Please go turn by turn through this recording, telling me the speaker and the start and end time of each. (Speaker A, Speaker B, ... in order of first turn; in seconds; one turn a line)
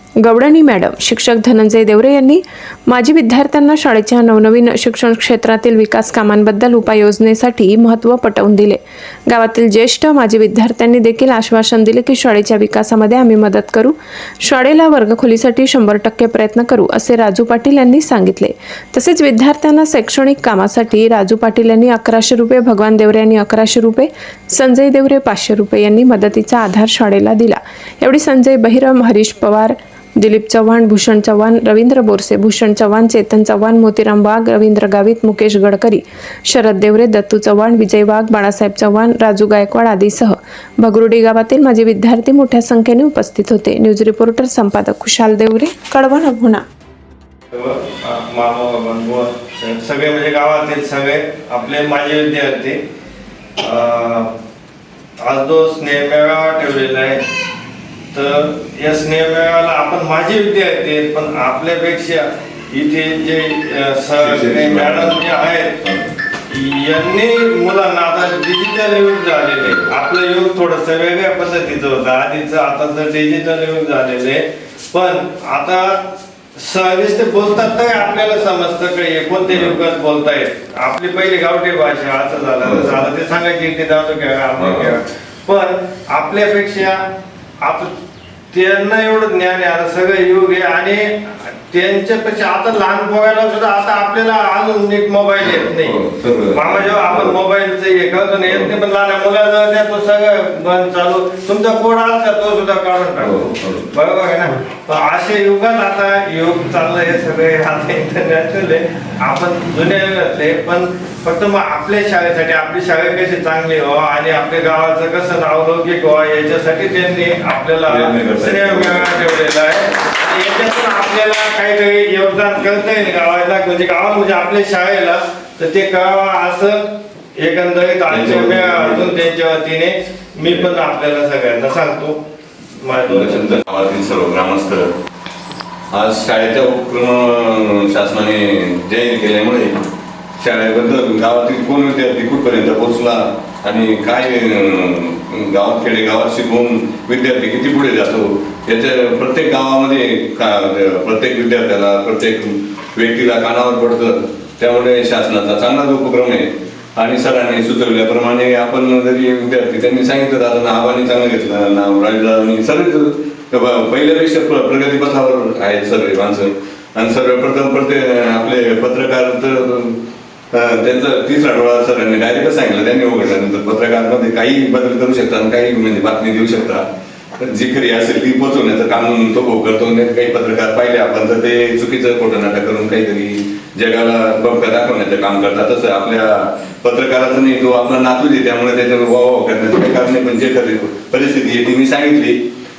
Speaker A: 0.2-46.6
Speaker B: 47.5-52.8
Speaker B: 53.6-54.3
Speaker B: 55.2-57.2
Speaker B: 58.1-65.8
Speaker C: 64.2-65.2
Speaker B: 66.5-87.0
Speaker C: 79.5-79.7
Speaker C: 82.6-83.0
Speaker C: 84.6-85.0
Speaker B: 87.6-87.9
Speaker B: 88.5-132.2
Speaker C: 95.4-97.3
Speaker C: 98.5-98.7
Speaker C: 103.2-103.9
Speaker C: 117.9-119.3
Speaker C: 128.1-129.1
Speaker B: 132.8-133.6
Speaker C: 133.1-134.9
Speaker C: 135.9-139.7
Speaker C: 140.4-170.0
Speaker C: 170.5-176.8
Speaker C: 177.4-192.4